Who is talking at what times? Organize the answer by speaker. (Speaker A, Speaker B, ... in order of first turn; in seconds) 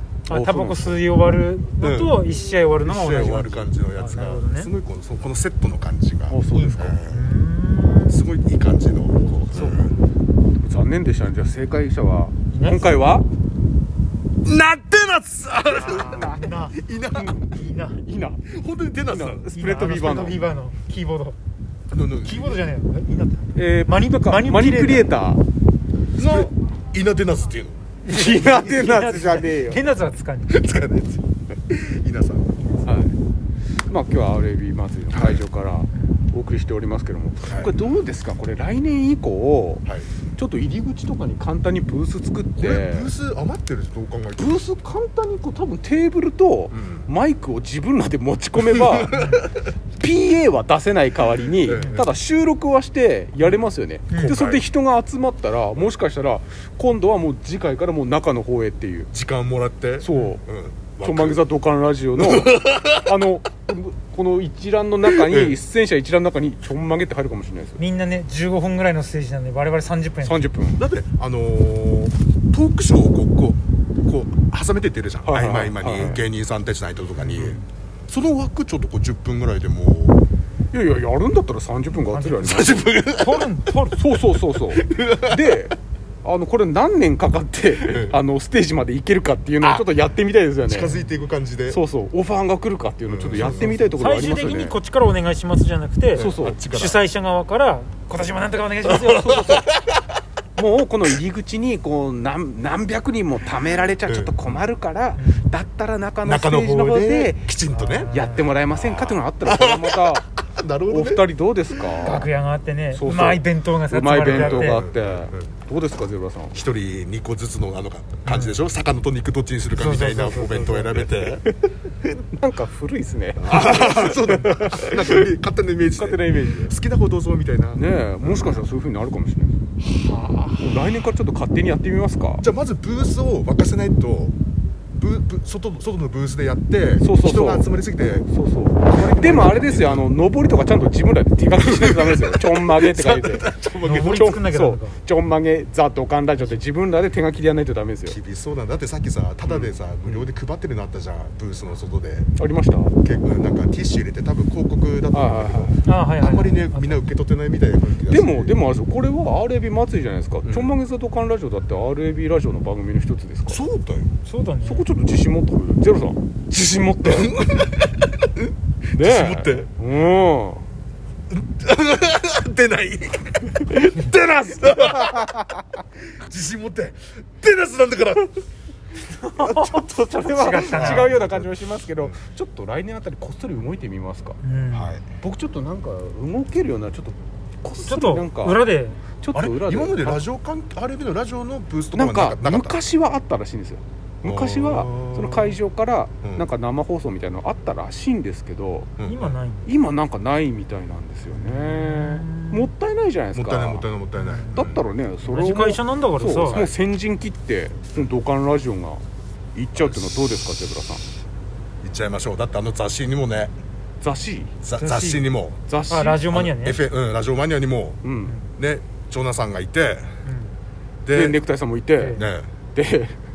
Speaker A: 0.3-1.0, 6.3-7.0, 9.2-9.9, 10.6-13.3, 16.1-16.5, 17.1-18.4, 19.1-20.5, 23.5-25.4, 28.0-29.8, 32.8-33.1, 33.9-39.8, 40.4-43.1, 44.4-49.3, 50.0-59.1, 60.0-60.4, 61.0-67.8, 70.2-70.8, 75.2-76.2, 80.7-82.9, 83.9-90.9, 91.7-94.8, 96.1-96.6, 98.9-99.7, 100.5-107.5, 108.1-110.3, 110.9-112.3, 112.9-116.6, 120.9-125.3, 125.9-126.8, 127.8-129.6, 130.6-132.4, 137.0-137.7, 138.3-148.2, 149.4-150.2, 152.4-152.9, 155.1-155.8, 158.1-163.6, 164.6-167.3, 168.9-170.6, 173.8-175.5, 179.1-184.4, 185.2-188.6, 189.2-190.2, 191.9-198.9, 199.6-203.9, 204.5-211.0, 214.0-214.5, 215.7-216.3, 218.0-218.3, 221.1-222.2, 222.7-223.2
Speaker B: 0.3-4.7, 6.5-8.2, 12.5-12.9, 15.7-16.8, 17.4-18.0, 19.5-21.4, 22.2-25.1, 28.0-30.6, 32.6-32.9, 35.9-36.2, 49.1-49.4, 54.1-54.4, 67.8-70.5, 77.2-77.7, 82.1-84.0, 90.8-91.1, 93.3-99.5, 105.2-105.5, 107.7-108.5, 112.0-114.8, 118.2-118.6, 119.7-120.9, 143.8-145.0, 155.8-157.0, 164.2-164.8, 180.2-181.2, 184.4-185.0, 187.8-189.0, 199.0-199.7, 201.3-202.7, 204.2-204.6, 205.2-206.6, 214.8-215.3, 215.9-216.8, 218.2-218.5, 220.2-220.6, 221.9-222.2
Speaker C: 1.8-2.2, 2.8-7.3, 8.1-9.9, 14.4-17.4, 18.5-19.5, 21.9-22.6, 26.2-27.8, 30.5-32.5, 35.1-35.4, 37.5-37.8, 42.6-44.6, 46.7-47.1, 48.6-49.5, 51.6-52.1, 54.1-54.6, 59.1-61.4, 62.2-63.3, 65.1-65.6, 70.8-80.2, 82.4-83.5, 84.8-85.7, 87.8-88.2, 89.6-89.9, 90.7-91.8, 93.1-94.0, 96.1-97.0, 98.8-100.0, 104.0-104.5, 106.2-111.2, 114.2-115.5, 116.5-121.5, 123.4-128.6, 129.9-130.8, 132.4-134.3, 135.0-138.3, 138.8-140.1, 141.6-144.4, 148.1-152.3, 153.0-158.6, 160.4-160.7, 163.5-164.2, 167.0-169.7, 171.3-175.4, 176.0-178.3, 180.7-182.1, 184.7-185.1, 189.3-192.8, 194.2-195.6, 199.0-199.4, 203.3-204.8, 206.5-206.7, 211.8-213.5, 214.6-215.6, 216.3-218.0, 218.6-220.2, 221.0-221.4, 222.1-222.5